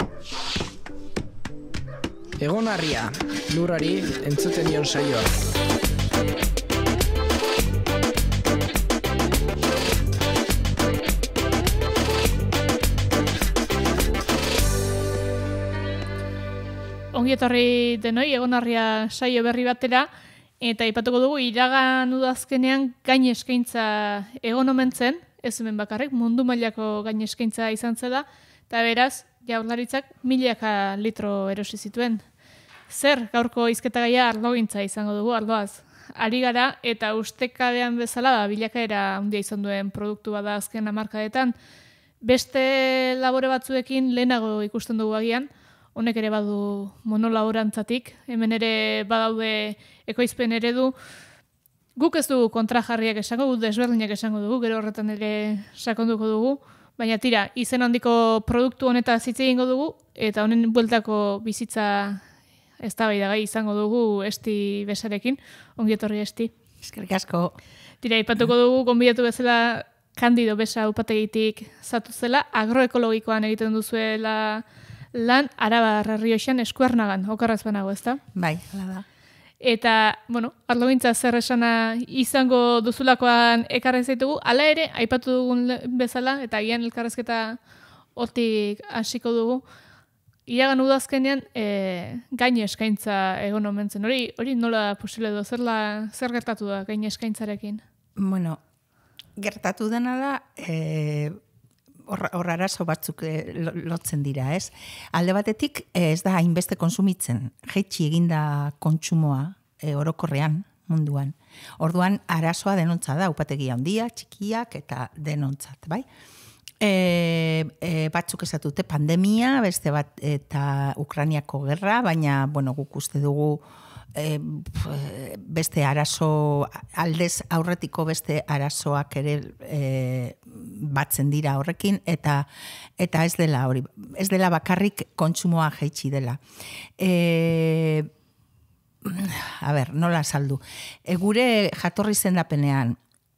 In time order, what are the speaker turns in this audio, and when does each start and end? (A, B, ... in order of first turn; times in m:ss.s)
0:02.4-0:05.5 A
0:17.1-0:20.1 B
0:20.6-0:32.2 B
0:32.9-0:41.5 B
0:42.2-0:50.9 B
0:52.0-1:02.2 B
1:02.8-1:06.5 B
1:06.8-1:07.6 C
1:08.0-1:18.2 B
1:18.3-1:19.0 C
1:19.6-1:27.6 B
1:28.2-1:29.6 B
1:30.5-1:37.8 B
1:38.2-1:38.6 C
1:39.4-1:41.4 C
1:42.0-1:56.0 C
1:56.8-2:12.5 C
2:13.0-2:16.4 C
2:17.0-2:18.1 C
2:19.0-2:23.0 C